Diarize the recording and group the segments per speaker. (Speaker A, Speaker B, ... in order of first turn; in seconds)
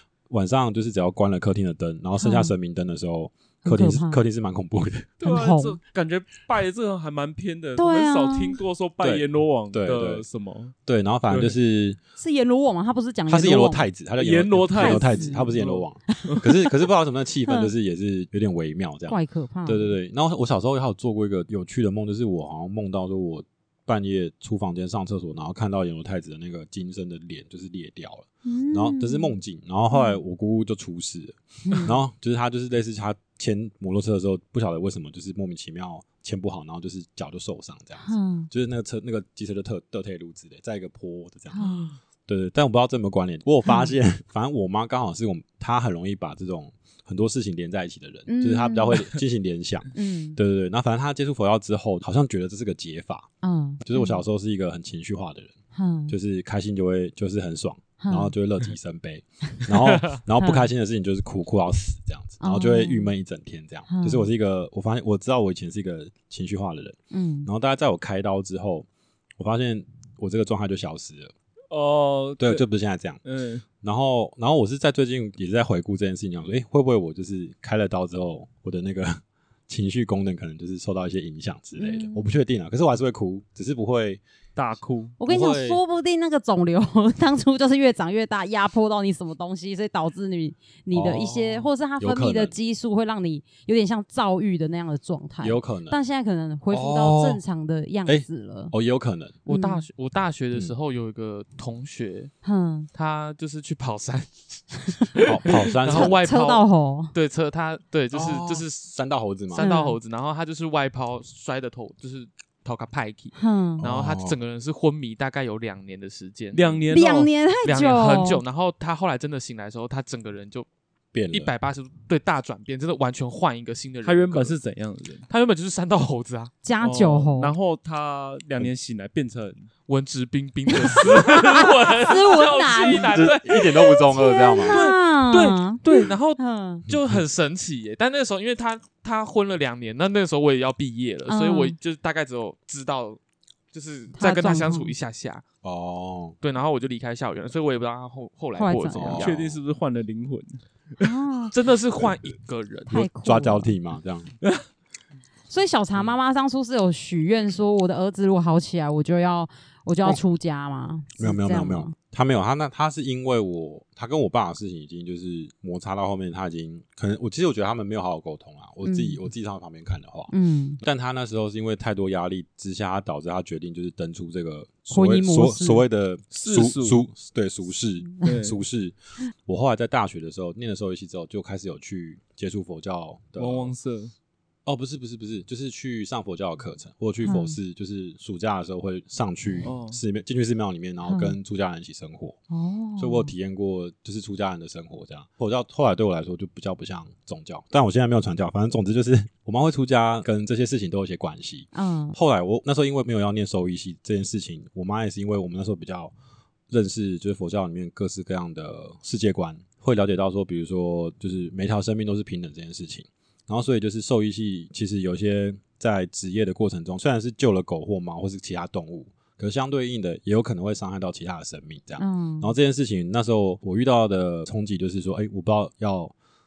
Speaker A: 0.3-5.1, 9.0-10.2, 10.9-12.0, 13.3-41.6, 42.3-53.3, 53.8-55.5, 56.1-68.9, 69.4-71.3, 72.4-73.2, 73.8-84.2, 85.2-85.8, 90.9-92.5, 95.4-96.0, 96.7-97.4, 98.0-99.4, 105.2-106.2, 108.1-109.7, 113.8-114.4, 121.1-121.5, 132.9-134.8, 136.9-137.2, 145.6-146.4, 148.9-149.5, 152.9-154.3, 161.2-183.7, 184.7-192.4, 193.0-206.1, 206.7-226.1
Speaker B: 2.2-2.5, 3.6-4.2, 5.2-5.8, 7.8-8.6, 12.2-13.8, 14.7-15.5, 16.1-16.5, 19.1-20.0, 28.4-29.4, 29.9-30.2, 31.6-32.0, 38.0-38.5, 41.5-41.9, 48.3-49.1, 49.9-50.4, 53.4-54.2, 55.7-56.1, 58.0-58.3, 60.4-60.7, 62.4-63.1, 63.9-64.3, 67.1-67.5, 81.8-82.2, 85.2-98.7, 99.5-99.8, 102.4-102.9, 105.9-107.1, 109.6-110.0, 113.4-113.8, 116.9-118.4, 126.6-127.5, 130.8-133.1, 134.1-136.9, 141.3-141.8, 144.2-144.9, 148.6-149.2, 151.0-151.5, 152.9-153.7, 155.5-161.9, 168.8-169.2, 170.3-170.8, 174.9-175.8, 187.2-187.6, 191.0-191.3, 192.5-193.3, 201.7-202.2, 222.0-222.5
Speaker C: 5.2-10.7, 11.3-11.6, 14.2-16.4, 71.7-72.6, 73.2-73.7, 84.5-85.2, 116.5-117.3, 124.0-125.3, 126.8-129.7, 130.9-132.9, 149.1-151.1, 176.3-177.0, 178.2-178.6, 183.4-184.1, 189.6-190.0
Speaker D: 99.5-102.3, 102.9-108.9, 109.5-116.9, 117.6-120.7, 121.3-124.5, 125.3-126.5, 129.9-134.1, 134.7-143.2, 143.7-145.4, 146.4-149.6, 151.5-153.1